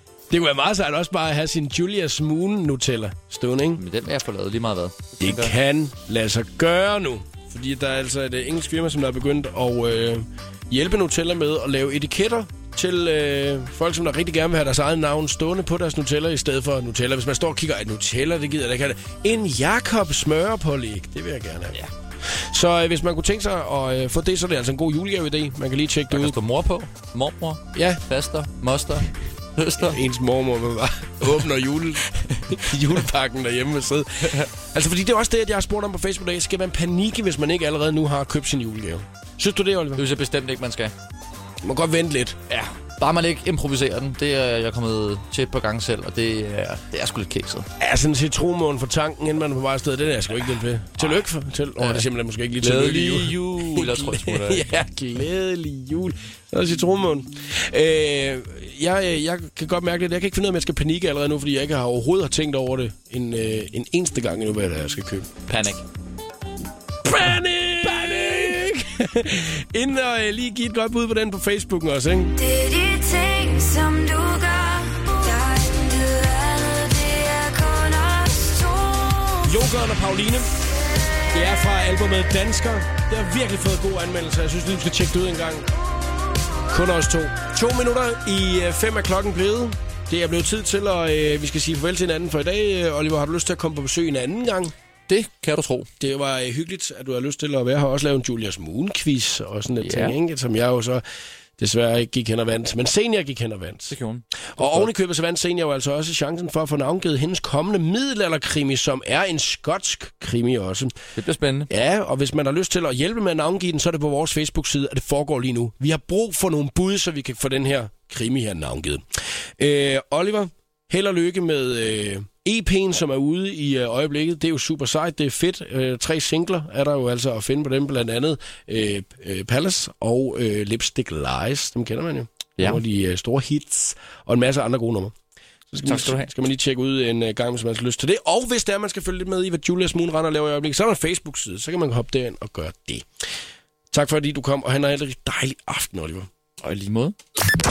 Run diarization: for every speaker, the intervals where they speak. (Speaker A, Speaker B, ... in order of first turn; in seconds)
Speaker A: 0.3-3.8, 5.2-26.4, 27.8-28.0, 29.8-40.0, 41.6-42.4, 47.8-65.3, 67.0-72.3, 79.4-80.5, 81.3-85.7, 86.7-94.7, 96.0-101.0, 101.6-104.0, 104.6-110.9, 111.7-119.0, 119.6-135.2, 135.7-143.1, 143.9-146.3
Speaker B: 3.8-5.5, 26.1-30.0, 32.3-32.6, 40.0-40.9, 42.5-47.7, 51.8-52.0, 52.6-54.7, 65.5-65.8, 95.1-95.9, 99.8-100.2, 103.9-104.9, 111.2-111.7, 135.8-136.3, 146.6-147.2
Speaker C: 72.3-79.6